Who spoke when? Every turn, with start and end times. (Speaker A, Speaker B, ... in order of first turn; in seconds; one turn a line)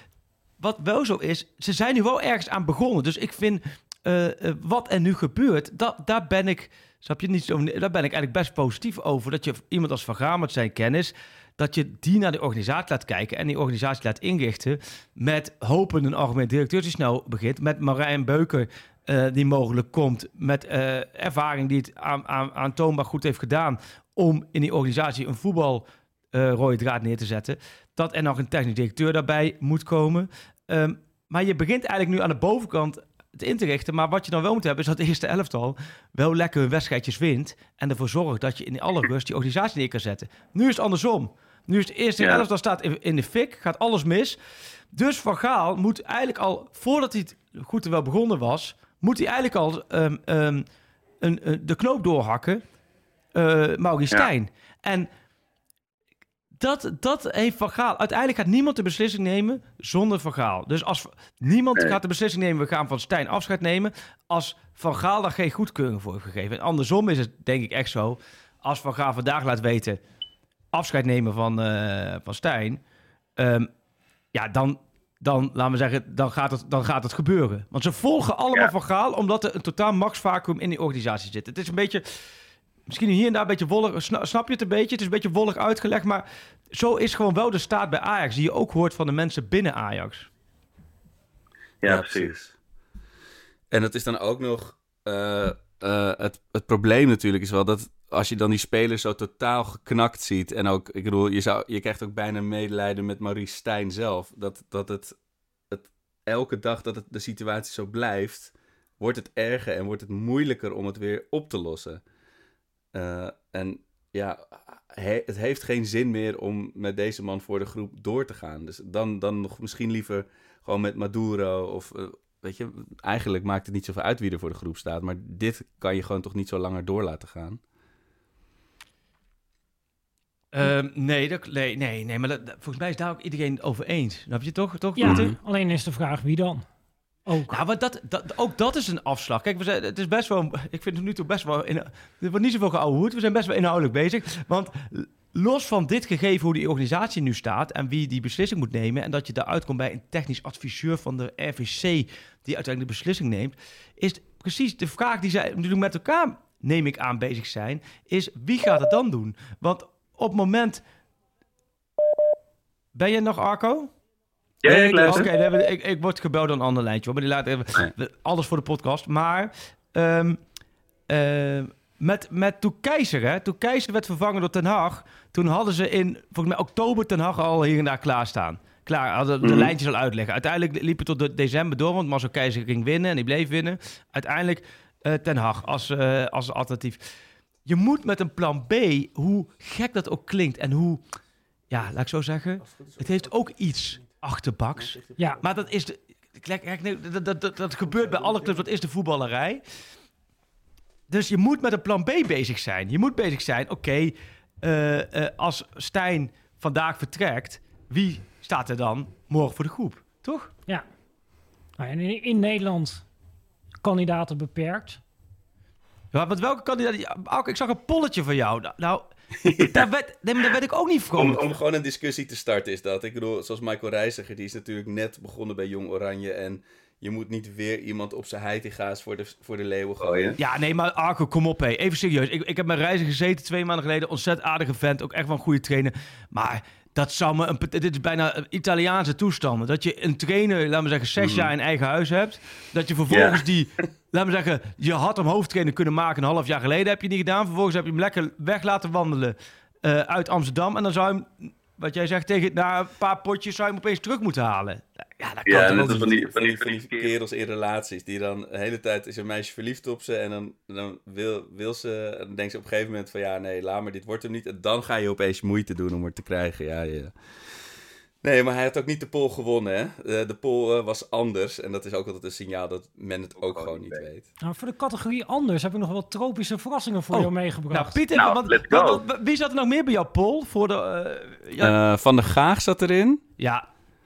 Speaker A: 0.6-44.4
Speaker A: 44.9-50.6
Speaker A: 51.2-52.6
Speaker A: 53.3-55.1
Speaker A: 56.6-70.0
Speaker A: 70.7-72.8
Speaker A: 73.4-73.7
Speaker A: 74.3-82.0
Speaker A: 82.9-90.3
Speaker B: 91.8-92.3
Speaker C: 91.8-92.5
Speaker C: 93.7-105.2
Speaker C: 105.7-112.0
Speaker C: 112.9-127.6
Speaker A: 130.5-135.3
Speaker D: 134.9-136.6
Speaker D: 137.3-137.6
Speaker A: 137.5-160.8
Speaker A: 162.9-163.9
Speaker B: 164.6-165.3
Speaker A: 164.7-170.4
Speaker C: 164.7-165.3
Speaker A: 171.1-187.0
Speaker B: 179.4-179.7
Speaker A: 187.7-191.0
Speaker A: 191.7-199.6
Speaker C: 192.8-193.3
Speaker C: 194.9-195.3
Speaker D: 195.2-195.4
Speaker A: 201.1-210.5
Speaker D: 211.8-213.1
Speaker D: 213.8-215.0
Speaker A: 216.1-221.4
Speaker C: 221.2-230.4
Speaker B: 230.0-230.3
Speaker A: 230.4-256.1
Speaker C: 243.1-243.4
Speaker B: 255.4-257.1
Speaker C: 255.5-267.1
Speaker C: 268.2-274.3
Speaker B: 273.4-274.0
Speaker D: 274.4-278.0
Speaker A: 277.1-281.7
Speaker B: 278.1-279.0
Speaker C: 281.6-283.2
Speaker A: 283.4-283.7